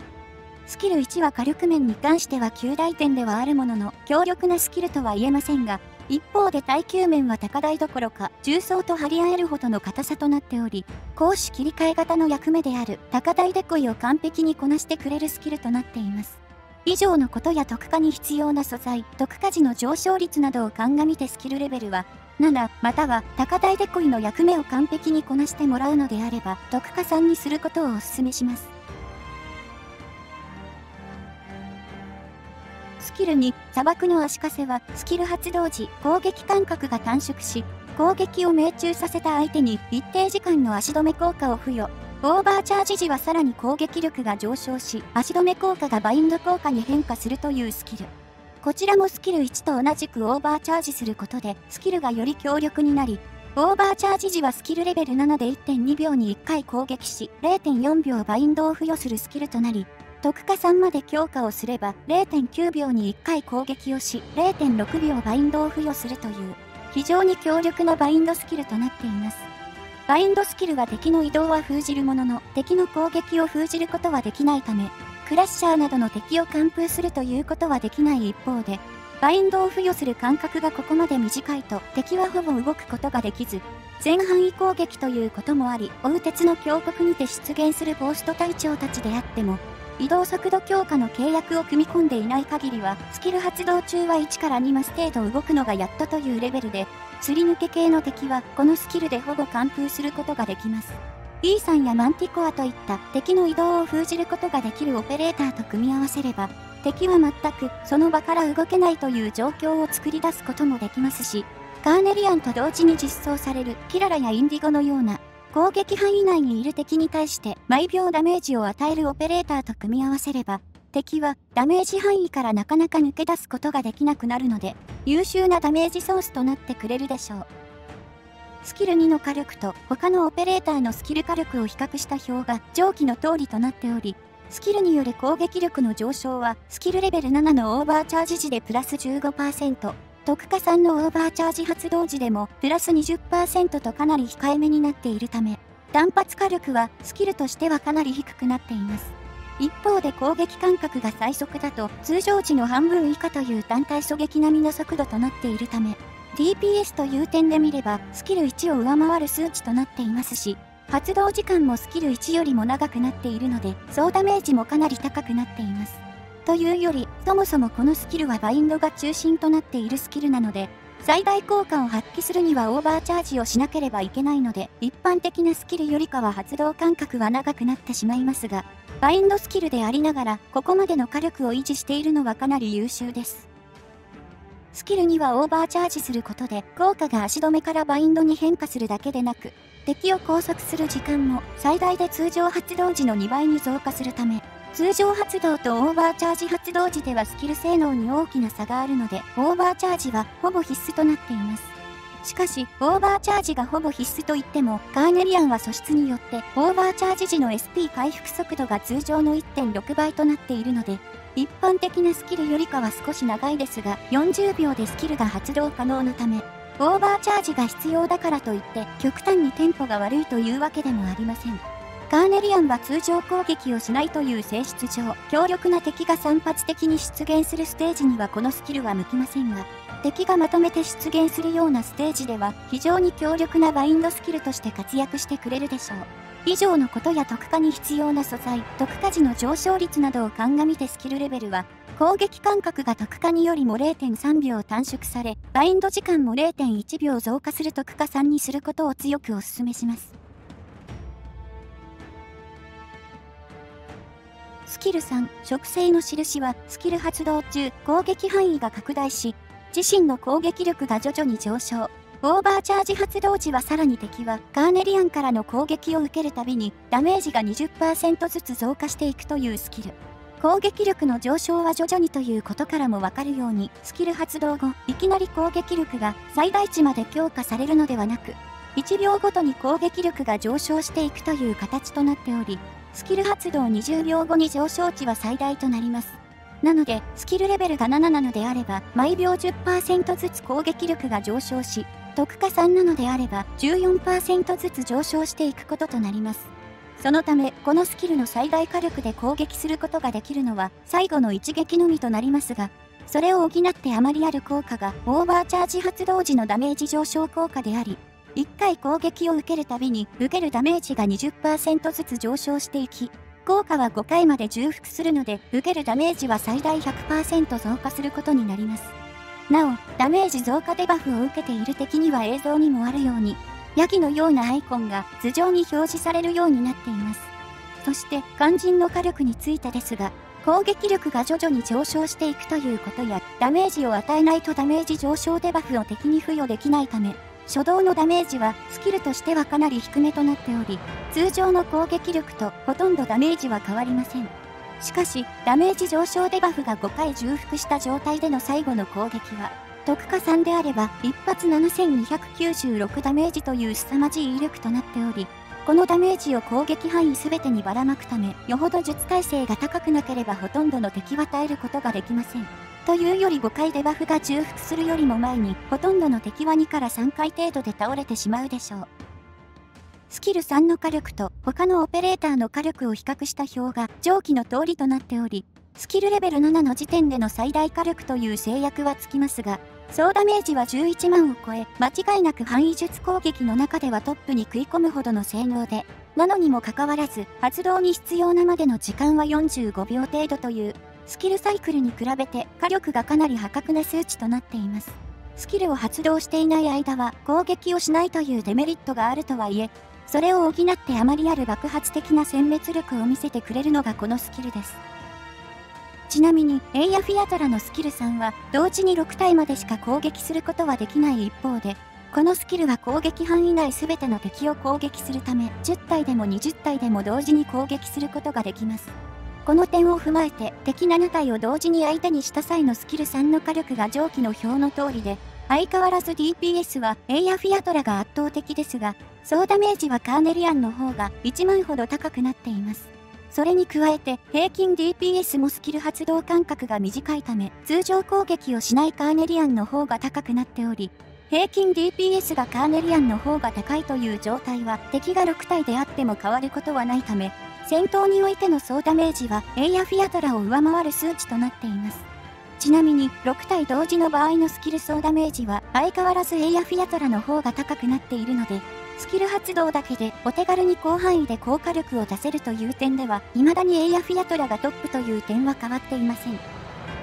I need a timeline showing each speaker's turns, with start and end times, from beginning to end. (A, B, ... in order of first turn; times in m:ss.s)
0:00.7-0:28.7 A
0:33.0-0:48.1 A
0:48.6-1:09.5 A
1:10.1-2:07.5 A
2:08.6-3:03.5 A
3:04.7-4:10.1 A
4:14.7-5:18.9 A
5:19.5-5:27.3 A
5:27.8-6:08.9 A
6:10.1-6:44.8 A
6:46.1-6:58.9 A
6:59.5-7:32.1 A
7:32.6-7:46.4 A